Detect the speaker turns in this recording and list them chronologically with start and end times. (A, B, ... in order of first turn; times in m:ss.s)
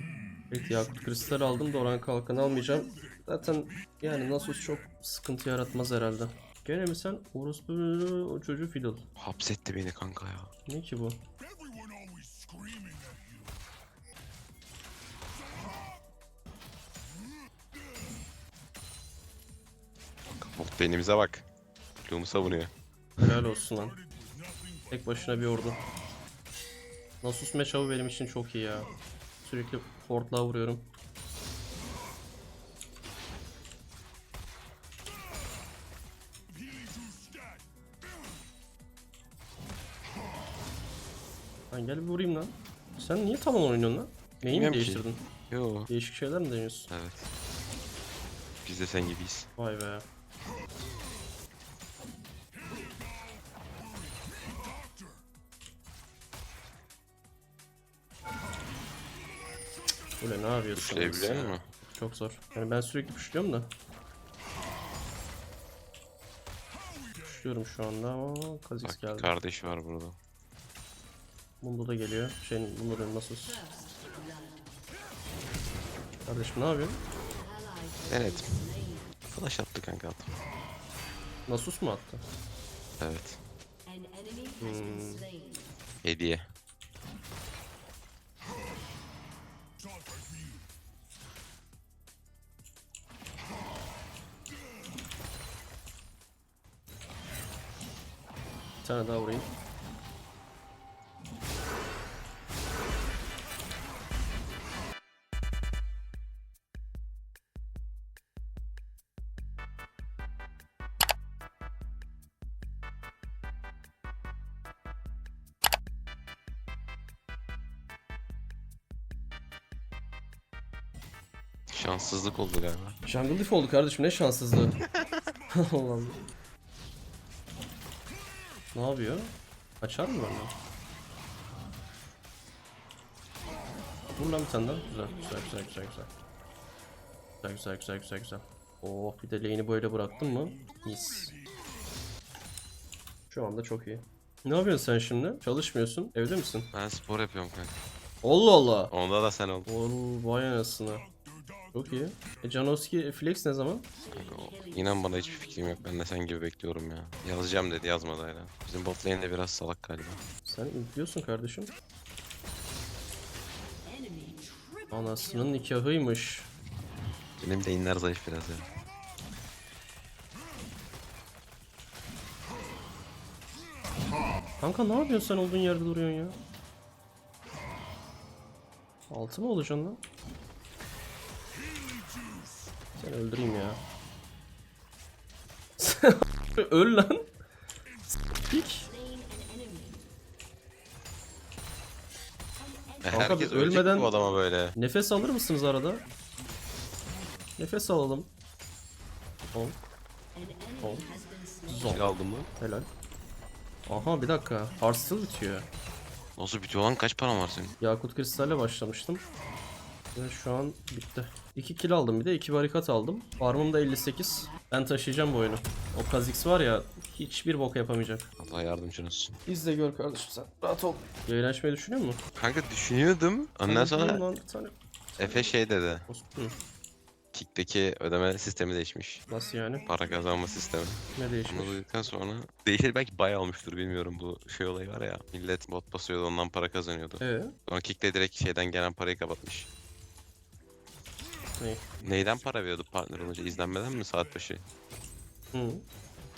0:00.5-0:09.0 A
0:09.2-0:10.5 B
0:10.7-0:11.2 A
0:20.4-0:21.5 B
0:22.0-0:23.4 B
0:23.2-0:24.0 A
0:24.9-0:25.8 A
0:27.2-0:30.9 A
0:41.7-0:45.2 A
0:44.4-0:45.9 B
0:45.9-0:46.9 A
0:46.9-0:47.3 B
0:48.6-0:49.5 B
0:49.6-0:50.0 A
1:00.2-1:03.7 A
1:00.7-1:01.6 B
1:07.2-1:09.3 A
1:08.8-1:10.2 B
1:11.6-1:13.6 A
1:13.6-1:14.6 C
1:16.2-1:17.0 A
1:17.6-1:18.4 C
1:18.1-1:18.6 B
1:19.3-1:20.4 B
1:21.5-1:22.2 A
1:23.0-1:23.4 B
1:23.9-1:25.4 C
1:24.6-1:25.3 A
1:26.0-1:26.5 B
1:38.8-1:39.5 A
2:01.7-2:03.0 B
2:03.0-2:04.8 A
2:04.8-2:05.2 B
2:05.5-2:06.2 A
2:08.7-2:10.5 A
2:14.2-2:16.1 A
2:17.4-2:21.4 A
2:23.3-2:26.7 A
2:26.7-2:27.8 B
2:28.2-2:28.9 A
2:28.9-2:29.7 B
2:29.7-2:31.1 A
2:31.7-2:33.9 A
2:34.1-2:35.5 C
2:34.1-2:40.2 B
2:40.4-2:41.7 A
2:43.9-2:45.5 C
2:44.9-2:46.5 A
2:47.4-2:48.7 B
2:54.6-2:56.4 A
2:59.1-3:00.0 A
3:03.0-3:03.8 A
3:05.8-3:07.3 A
3:08.1-3:08.9 A
3:08.9-3:10.0 C
3:12.6-3:13.3 C
3:13.0-3:14.8 B
3:13.1-3:14.1 A
3:14.8-3:16.0 A
3:17.6-3:18.3 A
3:20.3-3:22.0 C
3:20.8-3:21.1 A
3:21.7-3:22.9 A
3:21.9-3:22.5 B
3:23.9-3:25.7 A
3:26.4-3:27.7 B
3:27.8-3:29.2 A
3:30.1-3:38.3 A
3:38.4-3:39.4 B
3:39.4-3:42.2 A
3:42.4-3:44.2 B
3:43.6-3:45.5 A
3:45.2-3:46.1 B
3:46.1-3:46.6 A
3:47.3-3:49.2 B
3:49.3-3:49.8 A
3:49.8-3:59.7 B
3:51.1-3:51.8 A
3:57.2-3:57.5 A
4:01.6-4:01.8 A
4:02.0-4:04.7 B
4:05.5-4:05.8 A